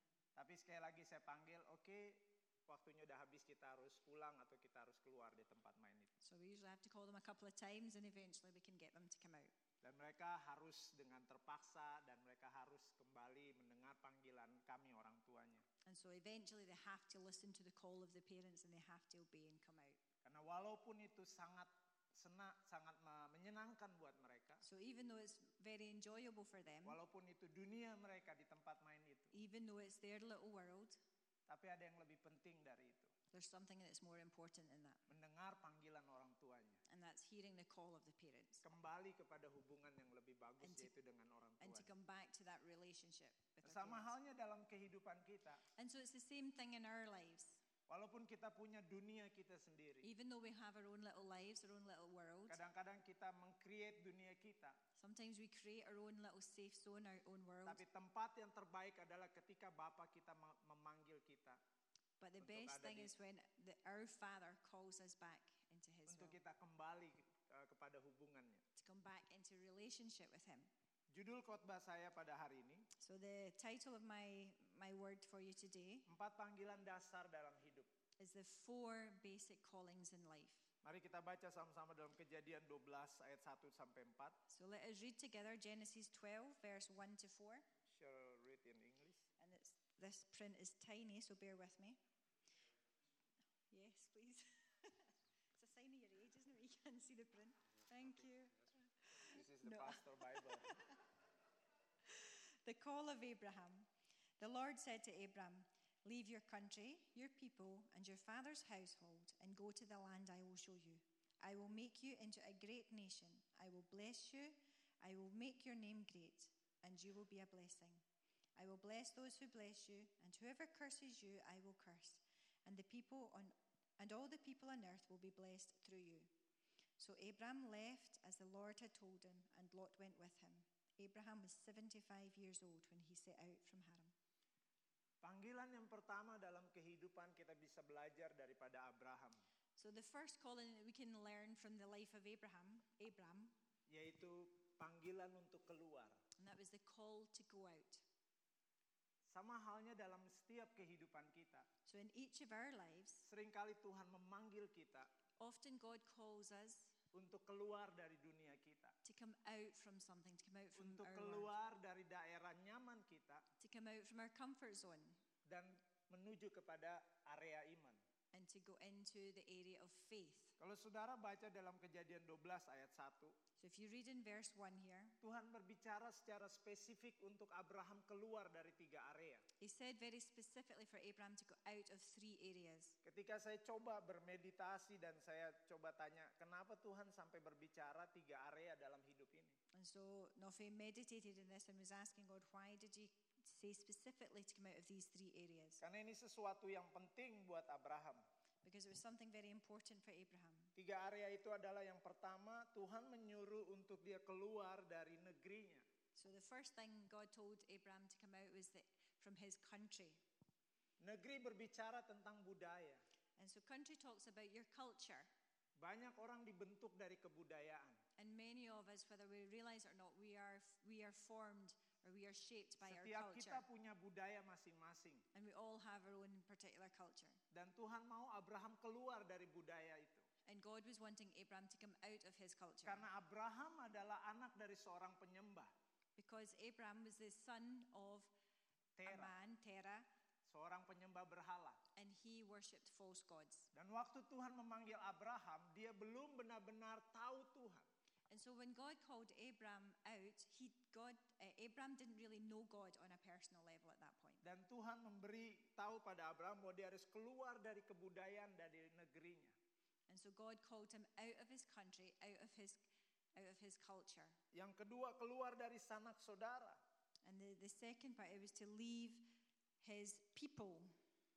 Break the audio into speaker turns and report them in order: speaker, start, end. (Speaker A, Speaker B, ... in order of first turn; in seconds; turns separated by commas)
Speaker A: 0.3-6.2, Speaker B: 6.2-9.5, Speaker A: 9.8-15.6, Speaker B: 15.8-20.0, Speaker A: 20.2-24.6, Speaker B: 24.6-27.0, Speaker A: 26.8-29.4, Speaker B: 29.3-31.0, Speaker A: 31.5-33.1, Speaker B: 33.3-35.0, Speaker A: 35.1-36.8, Speaker B: 36.9-38.6, Speaker A: 38.6-41.9, Speaker B: 40.6-40.9, Speaker B: 41.6-44.1, Speaker A: 43.6-45.6, Speaker B: 45.8-47.6, Speaker A: 47.9-50.1, Speaker B: 50.0-52.6, Speaker A: 52.5-54.8, Speaker B: 55.0-57.8, Speaker A: 57.6-61.6, Speaker B: 62.2-66.4, Speaker A: 62.4-63.1, Speaker A: 66.1-68.6, Speaker B: 68.8-70.7, Speaker A: 71.1-72.9, Speaker B: 73.0-76.1, Speaker A: 76.0-77.9, Speaker B: 78.2-80.7, Speaker A: 80.8-84.4, Speaker B: 84.5-87.7, Speaker A: 87.9-89.3, Speaker B: 89.4-92.0, Speaker B: 93.7-101.0, Speaker A: 99.2-100.7, Speaker B: 102.0-118.0, Speaker B: 118.5-126.3, Speaker B: 127.0-134.1, Speaker A: 135.2-139.4, Speaker B: 139.8-143.5, Speaker A: 143.9-146.2, Speaker B: 146.4-148.0, Speaker A: 149.2-151.7, Speaker B: 151.8-153.2, Speaker A: 153.2-155.1, Speaker B: 155.4-156.9, Speaker A: 157.1-158.9, Speaker B: 159.0-161.5, Speaker A: 160.8-163.4, Speaker B: 163.6-165.2, Speaker A: 165.4-168.0, Speaker B: 168.3-170.5, Speaker A: 170.6-173.3, Speaker B: 173.6-175.2, Speaker A: 175.2-179.4, Speaker B: 179.6-183.0, Speaker A: 183.0-189.6, Speaker B: 189.7-195.8, Speaker A: 195.8-198.2, Speaker B: 198.6-200.7, Speaker A: 200.8-205.8, Speaker B: 206.1-210.2, Speaker A: 211.0-213.0, Speaker B: 213.4-215.3, Speaker A: 215.8-218.0, Speaker B: 218.2-223.7, Speaker A: 222.8-225.2, Speaker B: 225.3-227.4, Speaker A: 227.5-230.2, Speaker B: 230.4-233.1, Speaker A: 232.8-235.7, Speaker B: 236.2-238.3, Speaker A: 239.0-239.3, Speaker B: 239.0-240.1, Speaker A: 240.4-241.8, Speaker B: 241.9-243.7, Speaker A: 243.7-247.9, Speaker B: 248.3-254.4, Speaker A: 254.4-259.6, Speaker B: 260.1-264.4, Speaker A: 264.5-266.8, Speaker B: 267.2-270.9